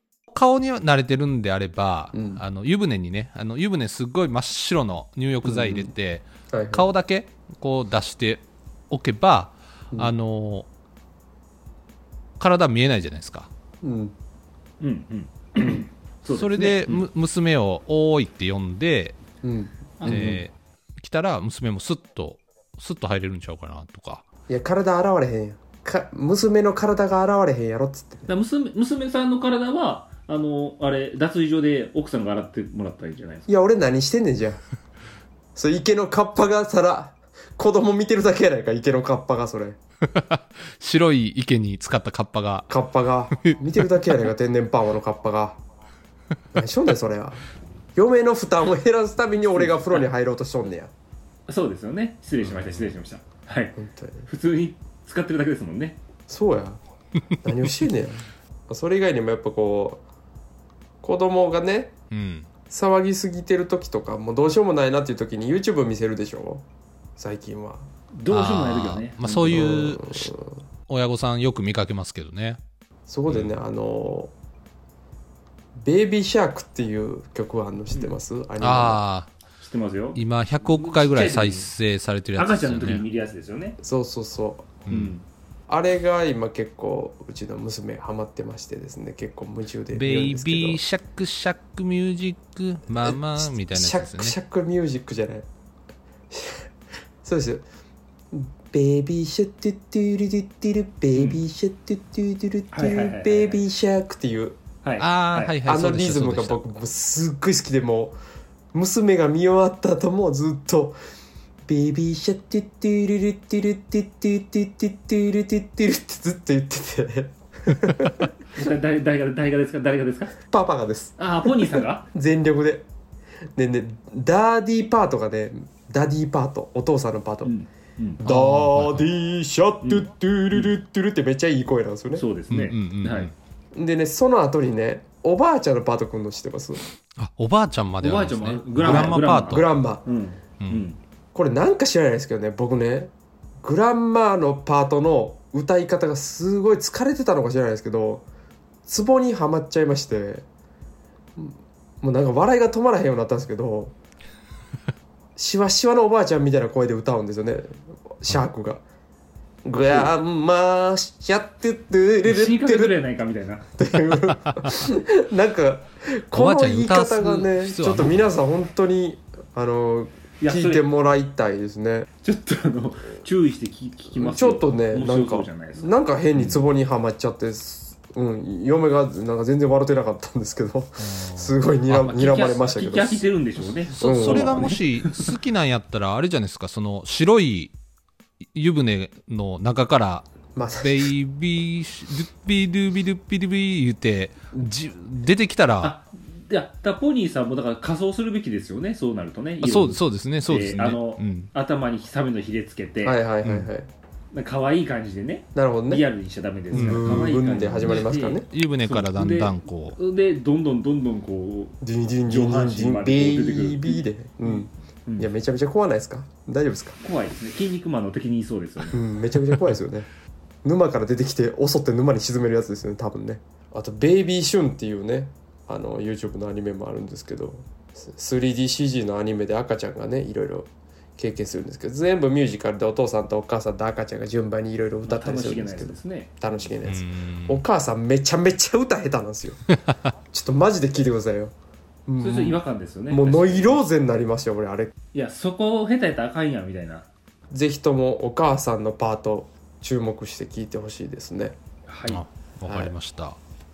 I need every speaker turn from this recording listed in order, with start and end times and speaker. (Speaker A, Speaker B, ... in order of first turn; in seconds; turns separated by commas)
Speaker A: 0.3-10.7, Speaker B: 2.1-2.4, Speaker B: 5.4-5.9, Speaker B: 6.5-6.9, Speaker A: 12.4-13.5, Speaker B: 13.8-14.1, Speaker C: 14.8-17.1, Speaker A: 16.3-19.2, Speaker B: 19.4-20.3, Speaker C: 20.0-20.4, Speaker A: 20.0-24.2, Speaker B: 24.5-28.3, Speaker C: 28.3-33.5, Speaker B: 33.5-34.6, Speaker B: 35.5-39.8, Speaker A: 40.1-42.7, Speaker B: 42.7-45.6, Speaker A: 43.3-44.1, Speaker B: 46.5-47.4, Speaker B: 47.9-50.9, Speaker C: 49.5-50.0, Speaker C: 51.5-56.0, Speaker A: 52.5-52.9, Speaker B: 53.8-54.3, Speaker B: 56.3-56.8, Speaker B: 57.4-60.0, Speaker B: 61.0-61.9, Speaker A: 62.1-62.5, Speaker B: 62.7-66.6, Speaker B: 67.2-67.9, Speaker C: 68.1-69.8, Speaker A: 68.3-70.3, Speaker B: 69.5-70.5, Speaker A: 70.9-72.6, Speaker B: 73.1-74.3, Speaker A: 73.3-73.5, Speaker B: 75.8-79.0, Speaker A: 78.6-79.3, Speaker C: 79.6-81.7, Speaker A: 80.2-83.0, Speaker C: 82.4-83.8, Speaker B: 83.8-84.8, Speaker A: 84.8-85.2, Speaker C: 84.9-85.2, Speaker B: 85.7-90.8, Speaker A: 89.9-94.4, Speaker B: 93.0-95.5, Speaker B: 96.3-96.7, Speaker B: 97.2-97.6, Speaker B: 98.3-104.6, Speaker C: 101.1-101.4, Speaker C: 102.7-103.6, Speaker C: 104.8-105.5, Speaker A: 105.0-106.8, Speaker B: 105.6-108.2, Speaker B: 108.7-111.0, Speaker B: 111.7-118.2, Speaker C: 118.5-120.3, Speaker B: 120.5-122.9, Speaker C: 121.2-122.1, Speaker B: 123.6-127.5, Speaker C: 127.4-128.2, Speaker B: 128.2-132.3, Speaker A: 128.2-129.1, Speaker C: 129.8-130.8, Speaker C: 132.2-133.3, Speaker A: 132.5-133.3, Speaker B: 133.7-136.8, Speaker A: 137.2-139.8, Speaker C: 138.0-141.0, Speaker B: 138.8-140.1, Speaker B: 141.3-148.2, Speaker B: 148.9-150.4, Speaker B: 151.4-153.9, Speaker B: 155.4-158.8, Speaker B: 159.6-162.9, Speaker C: 159.8-160.1, Speaker C: 162.2-163.6, Speaker B: 163.8-172.1, Speaker A: 164.3-164.8, Speaker A: 166.3-168.2, Speaker C: 170.4-170.8, Speaker C: 172.2-176.6, Speaker B: 174.1-183.2, Speaker A: 181.0-182.1, Speaker C: 181.9-185.3, Speaker B: 184.0-184.7, Speaker A: 184.0-187.7, Speaker A: 188.5-190.3, Speaker B: 190.5-191.1, Speaker A: 190.8-195.9, Speaker C: 195.8-203.2, Speaker A: 199.6-201.5, Speaker B: 203.0-203.9, Speaker A: 203.4-203.7, Speaker C: 204.3-215.3, Speaker B: 205.5-206.0, Speaker B: 206.7-208.5, Speaker A: 206.7-210.0, Speaker B: 211.8-217.0, Speaker C: 217.0-219.0, Speaker B: 218.9-220.1, Speaker B: 220.6-239.7, Speaker C: 235.0-236.3, Speaker A: 236.8-237.6, Speaker B: 240.3-241.5, Speaker B: 242.1-244.9, Speaker C: 242.2-243.8, Speaker C: 245.1-247.1, Speaker B: 247.5-251.6, Speaker C: 251.9-252.2, Speaker A: 252.1-253.4, Speaker B: 252.7-252.9